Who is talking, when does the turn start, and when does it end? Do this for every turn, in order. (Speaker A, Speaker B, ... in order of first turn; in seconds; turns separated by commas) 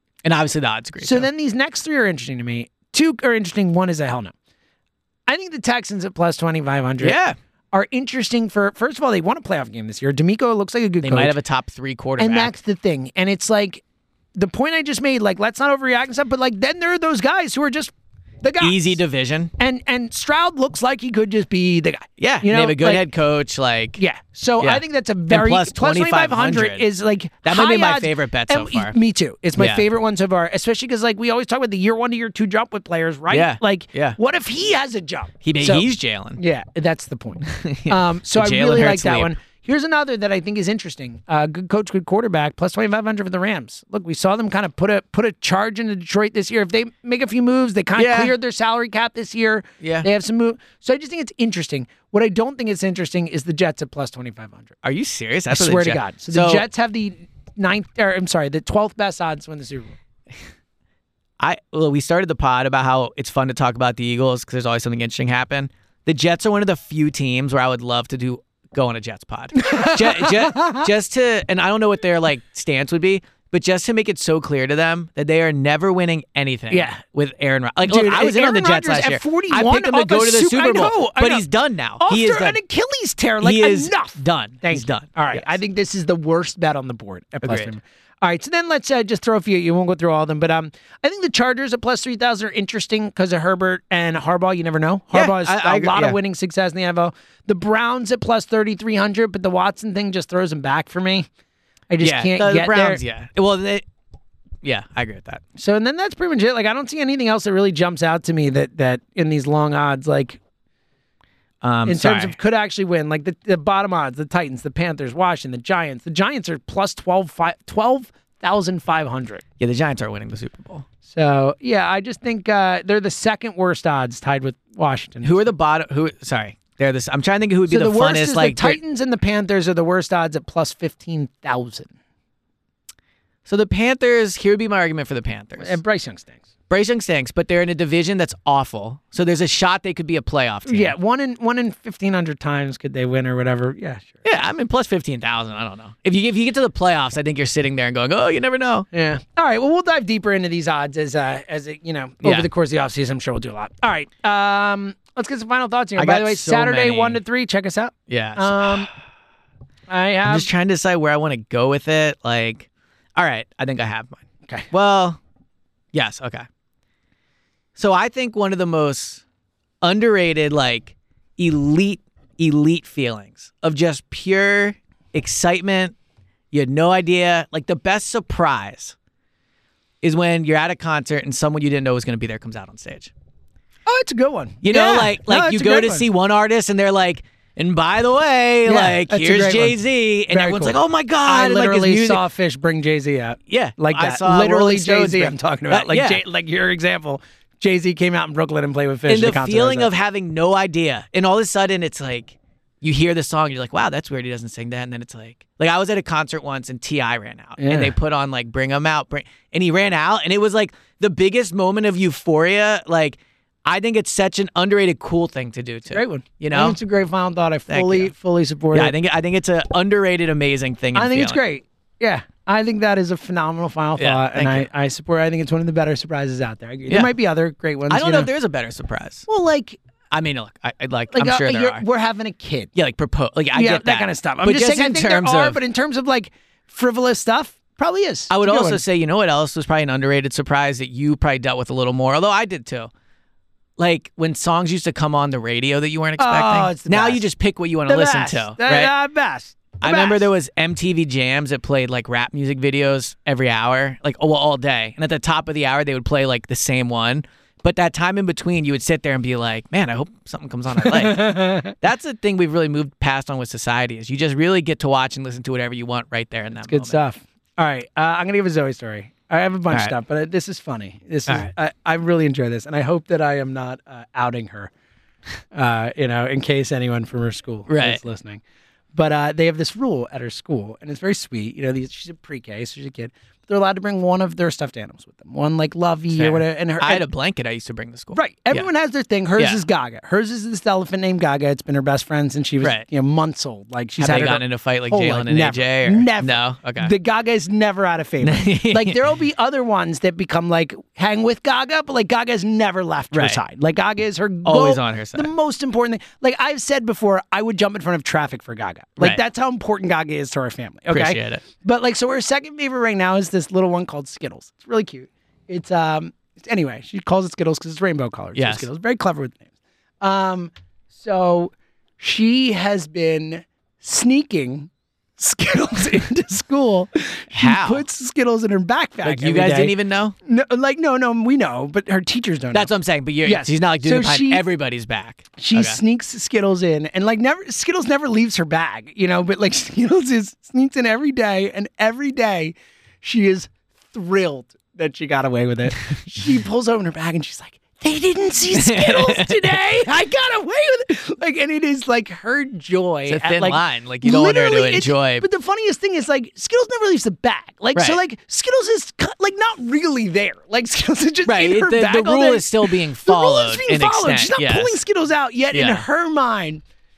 Speaker A: 0.2-1.3, Speaker B: 1.0-4.3, Speaker B: 5.3-7.2, Speaker A: 7.0-7.3, Speaker B: 7.7-11.3, Speaker A: 11.0-12.5, Speaker B: 12.2-13.8, Speaker B: 14.3-18.9, Speaker A: 18.6-19.5, Speaker B: 19.6-23.0, Speaker A: 22.2-24.0, Speaker B: 24.0-54.8, Speaker A: 24.6-26.9, Speaker A: 27.4-28.9, Speaker A: 29.6-29.8, Speaker A: 33.3-34.2, Speaker A: 35.4-36.4, Speaker A: 37.5-39.3, Speaker A: 48.0-48.3, Speaker A: 49.8-50.1, Speaker A: 54.8-56.6, Speaker B: 55.5-59.9, Speaker A: 61.4-82.6, Speaker B: 69.6-70.9, Speaker B: 76.7-77.0, Speaker B: 77.8-81.5, Speaker B: 82.0-101.3, Speaker A: 83.4-85.5, Speaker A: 87.4-87.7, Speaker A: 95.1-96.2, Speaker B: 101.9-103.0, Speaker A: 102.0-103.8, Speaker A: 104.6-105.4, Speaker B: 105.6-110.4, Speaker A: 111.6-112.3, Speaker B: 111.8-119.4, Speaker A: 119.6-120.8, Speaker B: 121.1-125.5, Speaker A: 125.2-128.8, Speaker B: 127.7-131.9, Speaker A: 133.4-135.8, Speaker B: 135.6-136.5, Speaker A: 136.7-140.9, Speaker B: 140.7-144.2, Speaker A: 144.2-148.9, Speaker B: 148.9-158.9, Speaker A: 152.2-152.5, Speaker A: 156.0-157.2, Speaker A: 158.1-158.9, Speaker B: 159.9-160.5, Speaker A: 160.2-165.2, Speaker A: 165.9-166.5, Speaker A: 167.8-169.2, Speaker A: 169.8-175.9, Speaker A: 176.5-178.9, Speaker A: 180.0-183.1, Speaker B: 183.8-186.1, Speaker A: 184.6-192.2, Speaker B: 188.6-189.8, Speaker B: 190.3-199.9, Speaker A: 193.5-196.2, Speaker A: 199.1-216.8, Speaker B: 207.6-207.9, Speaker B: 215.9-218.9, Speaker A: 217.7-218.1, Speaker A: 218.7-221.4, Speaker B: 220.9-228.3, Speaker A: 224.0-224.7, Speaker A: 227.9-229.2, Speaker B: 229.3-229.8, Speaker A: 230.1-231.8, Speaker B: 231.1-232.7, Speaker A: 232.7-235.6, Speaker B: 233.5-238.8, Speaker A: 238.3-242.9, Speaker A: 243.8-248.9, Speaker B: 246.2-247.2, Speaker B: 247.8-250.3, Speaker A: 249.8-267.0, Speaker B: 260.8-261.7, Speaker B: 266.6-274.7, Speaker B: 275.5-278.4, Speaker A: 277.7-278.0, Speaker B: 278.9-287.0, Speaker A: 286.1-288.7, Speaker B: 288.1-319.4, Speaker A: 292.6-292.9, Speaker A: 294.0-296.9, Speaker A: 298.2-299.0, Speaker A: 303.1-303.4, Speaker A: 304.4-305.3, Speaker A: 310.9-311.4, Speaker A: 318.4-318.6, Speaker B: 320.0-329.7, Speaker A: 327.3-327.8, Speaker A: 329.0-330.1, Speaker B: 330.2-332.7, Speaker A: 332.5-335.8, Speaker B: 333.2-334.4, Speaker B: 335.4-366.6, Speaker A: 348.5-349.5, Speaker A: 353.1-355.2, Speaker A: 361.2-364.8, Speaker A: 365.5-365.8